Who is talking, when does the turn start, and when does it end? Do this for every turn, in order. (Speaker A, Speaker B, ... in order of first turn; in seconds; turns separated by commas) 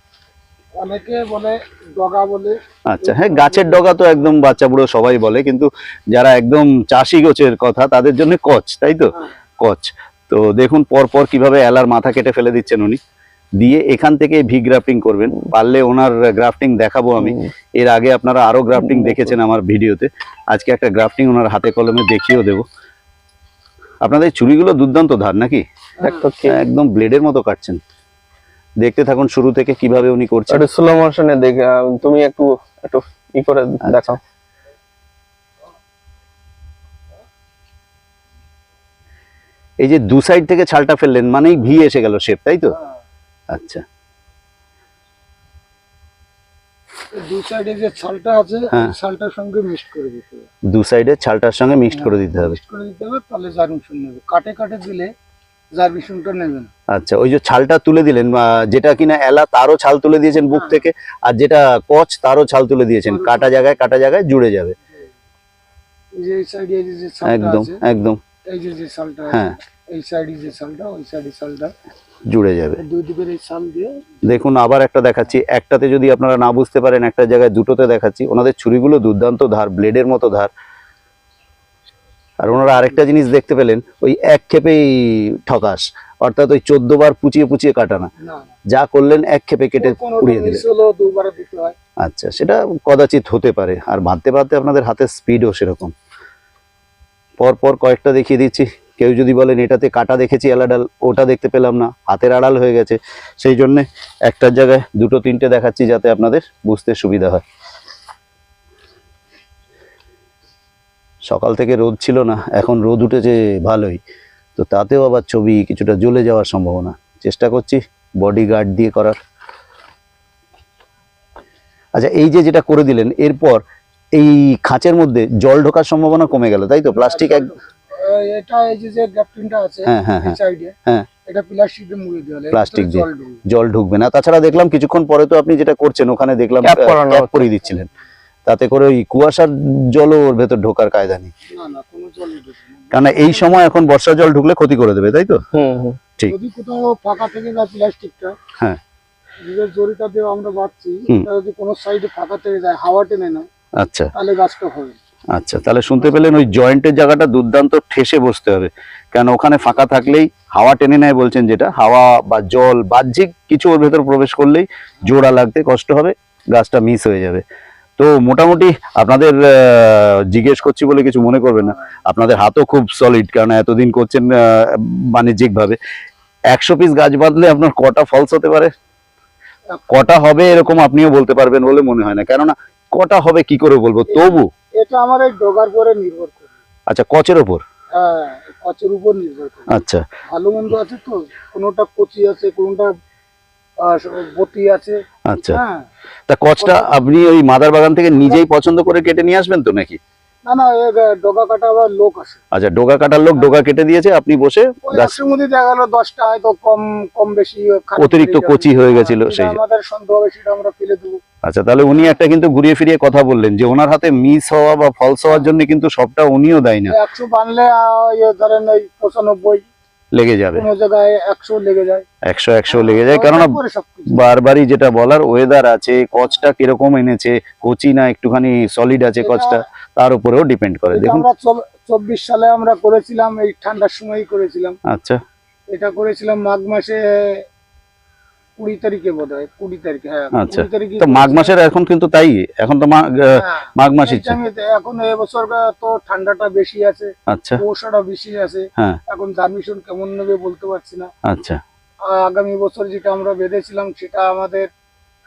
Speaker A: 0.8-3.8, Speaker B: 2.9-13.0, Speaker B: 13.6-22.6, Speaker C: 17.2-17.5, Speaker C: 18.9-19.2, Speaker B: 24.0-25.6, Speaker C: 26.0-26.6, Speaker B: 26.5-27.8, Speaker B: 28.8-30.6, Speaker C: 30.5-34.2, Speaker B: 33.9-34.2, Speaker B: 39.8-42.7, Speaker B: 43.5-43.8, Speaker A: 47.1-50.5, Speaker B: 50.7-52.6, Speaker A: 51.9-55.1, Speaker A: 55.8-56.7, Speaker B: 56.9-64.8, Speaker A: 63.1-63.5, Speaker A: 66.1-67.9, Speaker B: 67.2-68.2, Speaker A: 68.5-71.7, Speaker B: 72.3-72.8, Speaker A: 72.8-74.1, Speaker B: 74.2-80.5, Speaker B: 82.4-88.1, Speaker A: 88.2-88.5, Speaker B: 88.7-90.6, Speaker A: 89.8-91.8, Speaker B: 92.0-95.9, Speaker B: 97.4-107.4, Speaker B: 111.2-114.0, Speaker B: 114.6-119.2, Speaker B: 122.0-123.6, Speaker B: 124.1-127.5, Speaker A: 127.0-130.8, Speaker B: 129.9-131.1, Speaker A: 131.3-133.4, Speaker B: 132.5-137.9, Speaker C: 136.6-137.4, Speaker B: 138.5-141.3, Speaker A: 141.5-143.5, Speaker B: 142.9-145.4, Speaker C: 145.5-146.0, Speaker A: 146.3-148.3, Speaker A: 149.4-153.5, Speaker B: 153.8-154.1, Speaker A: 154.2-155.0, Speaker B: 155.3-167.4, Speaker B: 168.0-175.8, Speaker B: 176.5-178.7, Speaker B: 179.9-184.5, Speaker A: 184.1-186.5, Speaker B: 186.9-187.6, Speaker A: 187.9-189.7, Speaker B: 189.7-190.0, Speaker A: 190.3-192.9, Speaker A: 193.8-195.9, Speaker B: 195.3-195.6, Speaker B: 196.3-200.0, Speaker A: 196.6-196.9, Speaker A: 200.5-202.4, Speaker B: 202.5-205.2, Speaker A: 204.9-211.2, Speaker B: 208.0-209.6, Speaker B: 211.4-216.9, Speaker A: 216.9-219.7, Speaker B: 220.1-220.7, Speaker A: 220.5-222.1, Speaker B: 222.2-223.6, Speaker A: 222.7-224.2, Speaker B: 224.1-231.3, Speaker A: 229.2-229.6, Speaker A: 230.9-234.8, Speaker B: 234.9-235.2, Speaker A: 235.7-237.4, Speaker A: 238.6-241.5, Speaker B: 240.3-244.4, Speaker A: 243.3-251.1, Speaker B: 247.3-247.6, Speaker B: 251.2-251.6, Speaker A: 252.1-254.7